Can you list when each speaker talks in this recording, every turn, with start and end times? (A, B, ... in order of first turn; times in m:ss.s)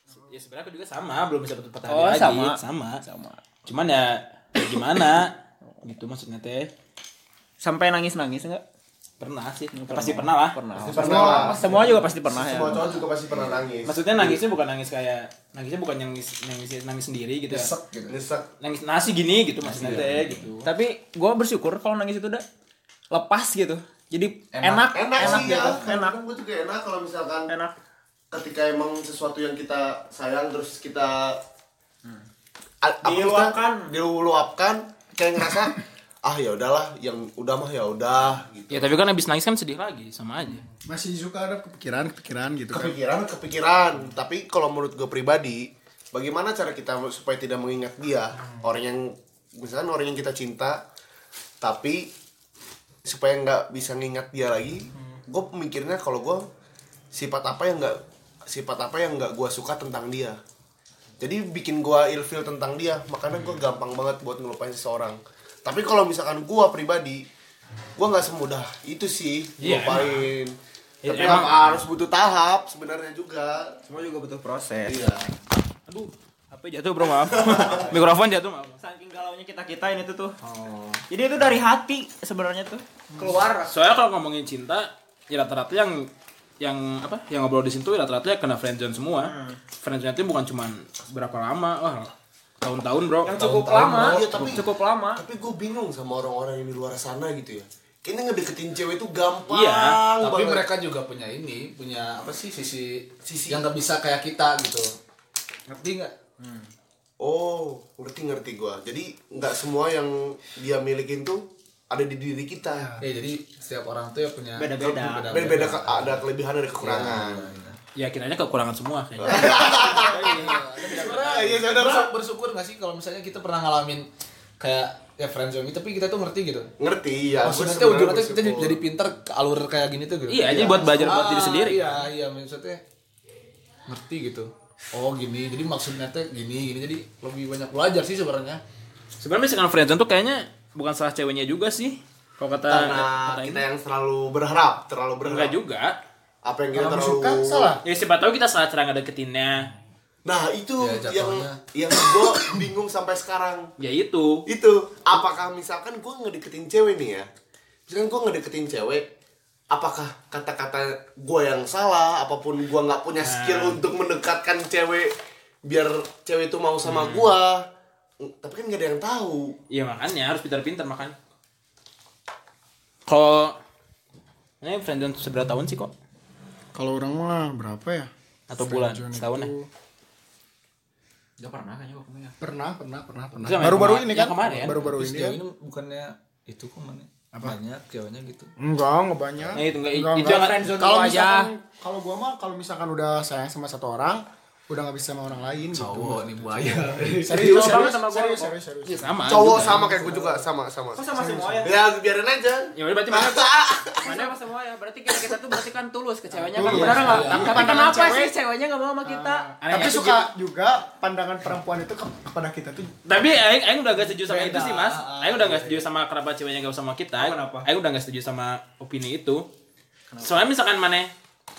0:00.2-0:03.0 A
0:01.9-0:03.4 B
0:03.7-0:06.7 A
0:07.6-0:08.6 B
0:09.2-0:10.6 A
0:09.7-0:13.0 B
0:10.8-0:14.4 C
0:11.0-0:11.6 D
0:13.3-0:13.6 E
0:13.9-0:17.7 A
0:17.5-0:18.2 E
0:18.1-0:18.5 C
0:18.6-0:20.7 A
0:19.6-0:20.5 E
0:20.6-0:22.4 B
0:23.1-0:26.2 B
0:24.5-0:25.9 E
0:24.9-0:27.5 C
0:27.5-0:27.7 B
0:28.3-0:31.4 C
0:32.8-0:38.9 C
0:33.0-0:33.9 B
0:38.7-0:40.6 A
0:40.7-0:42.9 D
0:42.7-0:50.8 C
0:51.6-0:52.1 C
0:53.0-0:56.5 C
0:57.1-1:00.4 C
1:01.2-1:07.3 C
1:08.0-1:13.8 C
1:09.6-1:10.3 A
1:11.0-1:11.6 A
1:13.9-1:15.1 B
1:14.9-1:15.3 C
1:15.9-1:18.8 A
1:17.2-1:17.9 C
1:18.8-1:20.4 B
1:20.5-1:21.0 E
1:21.1-1:23.7 B
1:23.7-1:26.1 A
1:26.6-1:33.4 A
1:29.2-1:29.6 B
1:33.2-1:35.2 B
1:33.3-1:34.6 E
1:33.9-1:40.6 C
1:39.5-1:40.0 A
1:40.2-1:44.9 E
1:43.2-1:43.7 C
1:45.7-1:46.2 E
1:47.2-1:53.0 C
1:53.0-1:56.3 E
1:54.6-1:55.5 B
1:55.3-1:57.5 C
1:56.8-1:57.8 E
1:58.0-2:01.6 A
1:59.2-2:02.1 C
1:59.5-2:06.7 E
2:06.8-2:08.8 C
2:07.4-2:12.8 E
2:10.3-2:11.8 A
2:10.5-2:11.2 C
2:13.9-2:18.6 E
2:19.2-2:23.7 A
2:22.7-2:25.6 C
2:25.2-2:26.0 A
2:26.4-2:27.8 C
2:26.7-2:27.8 D
2:27.8-2:29.7 A
2:30.3-2:33.7 C
2:30.8-2:31.6 E
2:33.8-2:34.5 A
2:34.5-2:37.3 C
2:37.9-2:39.1 C
2:39.7-2:45.1 C
2:43.2-2:43.8 A
2:45.6-2:47.7 C
2:46.8-2:47.4 A
2:48.2-2:49.6 C
2:49.7-2:51.2 A
2:53.1-2:53.6 A
2:54.6-2:55.9 A
2:56.8-2:59.7 D
2:58.5-2:59.5 A
3:01.4-3:02.4 B
3:02.4-3:05.4 D
3:03.4-3:04.8 A
3:04.5-3:08.5 E
3:08.6-3:20.4 D
3:09.6-3:10.7 A
3:10.2-3:11.5 B
3:15.7-3:17.9 E
3:16.9-3:18.5 B
3:18.9-3:19.8 A
3:19.2-3:21.1 C
3:21.0-3:21.8 B
3:21.1-3:21.7 D
3:21.6-3:24.3 C
3:22.8-3:23.5 A
3:24.0-3:29.5 B
3:26.4-3:28.3 D
3:26.6-3:27.7 A
3:26.7-3:27.7 E
3:29.0-3:32.9 D
3:29.6-3:30.3 A
3:33.1-3:39.4 A
3:34.2-3:35.9 E
3:37.2-3:37.7 B
3:40.2-3:41.1 A